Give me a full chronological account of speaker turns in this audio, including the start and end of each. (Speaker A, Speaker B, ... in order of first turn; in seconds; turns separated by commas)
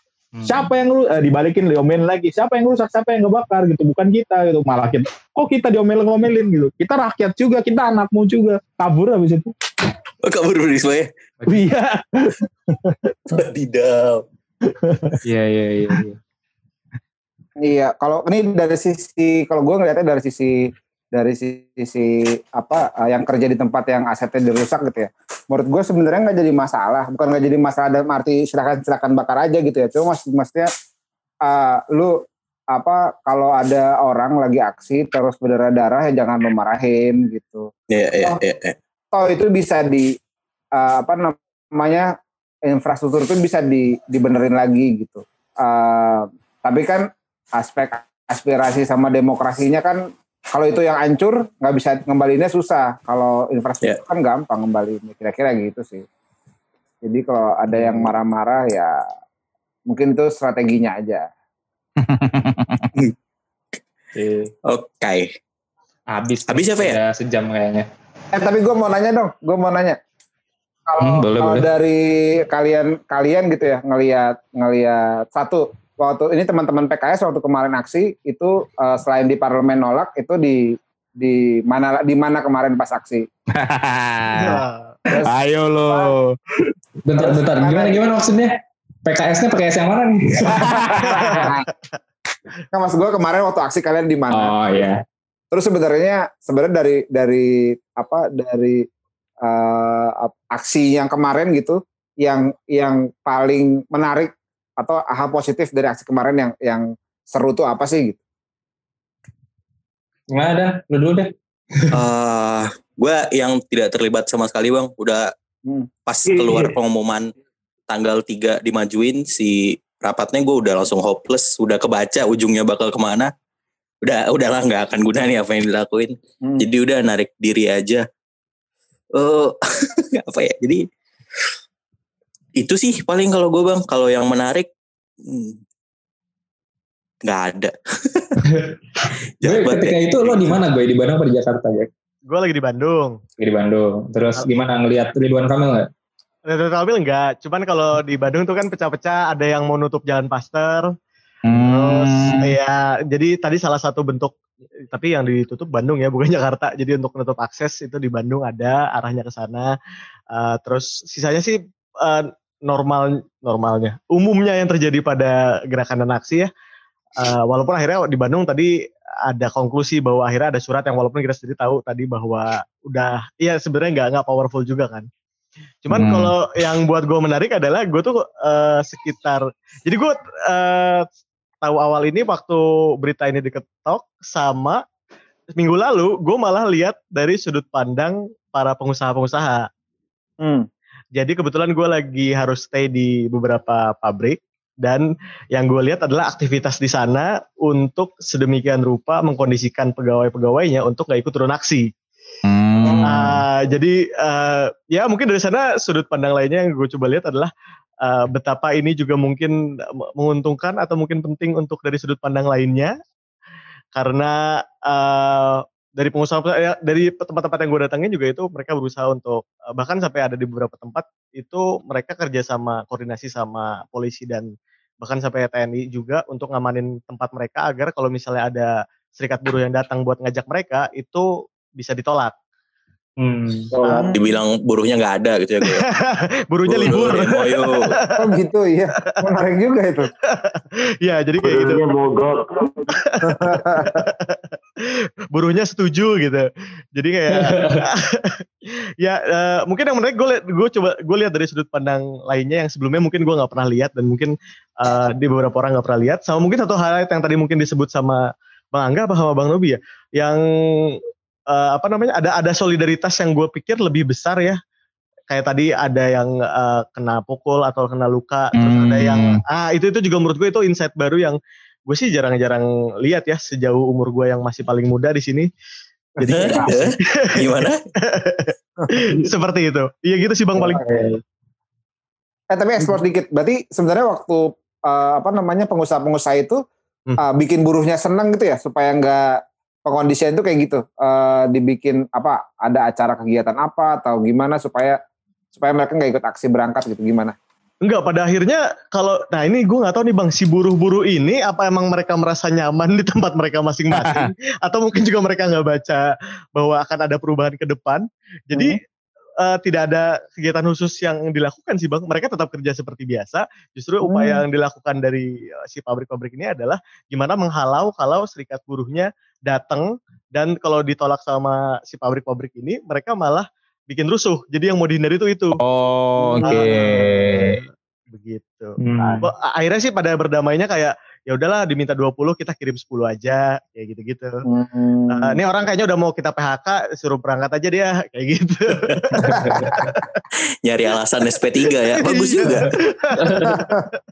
Speaker A: 0.3-0.7, Speaker B: 0.4-9.5, Speaker C: 10.2-11.1, Speaker B: 11.5-13.4, Speaker C: 13.3-14.2, Speaker B: 14.7-15.2, Speaker A: 15.2-16.2, Speaker D: 17.6-30.7, Speaker D: 31.4-37.7, Speaker C: 37.9-38.8, Speaker D: 39.1-40.1, Speaker D: 40.7-42.1, Speaker D: 42.6-56.0, Speaker D: 57.0-59.0, Speaker A: 57.7-58.1, Speaker D: 59.9-61.3, Speaker B: 62.0-62.9, Speaker A: 64.1-64.5, Speaker C: 64.6-65.3, Speaker A: 66.1-67.9, Speaker C: 66.5-67.0, Speaker D: 68.3-70.0, Speaker D: 70.8-80.6, Speaker A: 71.0-71.7, Speaker D: 81.2-83.3, Speaker B: 83.5-84.6, Speaker E: 84.4-84.9, Speaker D: 85.1-85.3, Speaker B: 85.2-86.3, Speaker A: 87.0-90.7, Speaker D: 87.1-88.1, Speaker B: 90.6-91.1, Speaker E: 91.0-91.9, Speaker D: 91.3-91.6, Speaker D: 92.7-94.5, Speaker A: 94.3-95.0, Speaker D: 95.5-98.8, Speaker D: 99.4-108.2, Speaker A: 110.3-111.9, Speaker C: 111.9-115.3, Speaker C: 116.1-117.3, Speaker F: 116.3-116.7, Speaker C: 117.9-123.3, Speaker C: 124.0-128.0, Speaker C: 129.2-129.6, Speaker C: 130.2-130.8, Speaker C: 132.6-134.7, Speaker C: 135.2-135.6, Speaker C: 137.2-138.4, Speaker C: 139.4-140.6, Speaker A: 139.4-141.9, Speaker E: 142.3-143.2, Speaker A: 143.4-145.9, Speaker E: 146.5-150.9, Speaker B: 151.5-152.5, Speaker E: 151.5-154.4, Speaker E: 154.9-159.7, Speaker E: 160.3-166.5, Speaker E: 167.2-168.7, Speaker E: 169.3-175.1, Speaker E: 175.8-181.1, Speaker B: 175.9-176.3, Speaker E: 181.6-184.8, Speaker E: 185.6-189.7, Speaker D: 190.4-190.7, Speaker E: 191.1-201.9, Speaker B: 202.4-203.4, Speaker E: 203.0-207.5, Speaker E: 208.0-209.5, Speaker E: 210.2-212.9, Speaker E: 213.9-224.5, Speaker E: 225.0-232.3, Speaker A: 233.2-233.7, Speaker F: 233.7-234.1, Speaker D: 233.8-234.2, Speaker C: 234.1-235.8, Speaker E: 235.6-238.3, Speaker C: 236.7-237.9, Speaker D: 238.2-240.1, Speaker E: 240.3-241.8, Speaker F: 241.4-242.9, Speaker E: 242.9-244.4, Speaker D: 243.3-244.0, Speaker E: 245.3-246.4, Speaker E: 246.9-248.4, Speaker A: 247.4-247.8, Speaker E: 249.0-264.6, Speaker E: 265.3-275.5, Speaker B: 268.5-269.4, Speaker E: 276.2-280.8, Speaker D: 276.2-276.8, Speaker C: 276.3-277.8, Speaker D: 278.8-279.2, Speaker D: 280.6-281.1, Speaker D: 282.5-286.6, Speaker D: 287.2-295.0, Speaker D: 295.5-297.3, Speaker E: 297.8-308.8, Speaker B: 303.9-304.3, Speaker D: 308.5-308.8, Speaker E: 309.4-325.6, Speaker D: 314.0-314.4, Speaker B: 325.6-327.6, Speaker E: 326.2-334.4, Speaker A: 328.8-329.2, Speaker D: 334.5-335.4, Speaker E: 335.1-340.0, Speaker D: 339.2-339.8, Speaker C: 340.6-342.7, Speaker E: 341.9-343.7, Speaker D: 343.4-343.9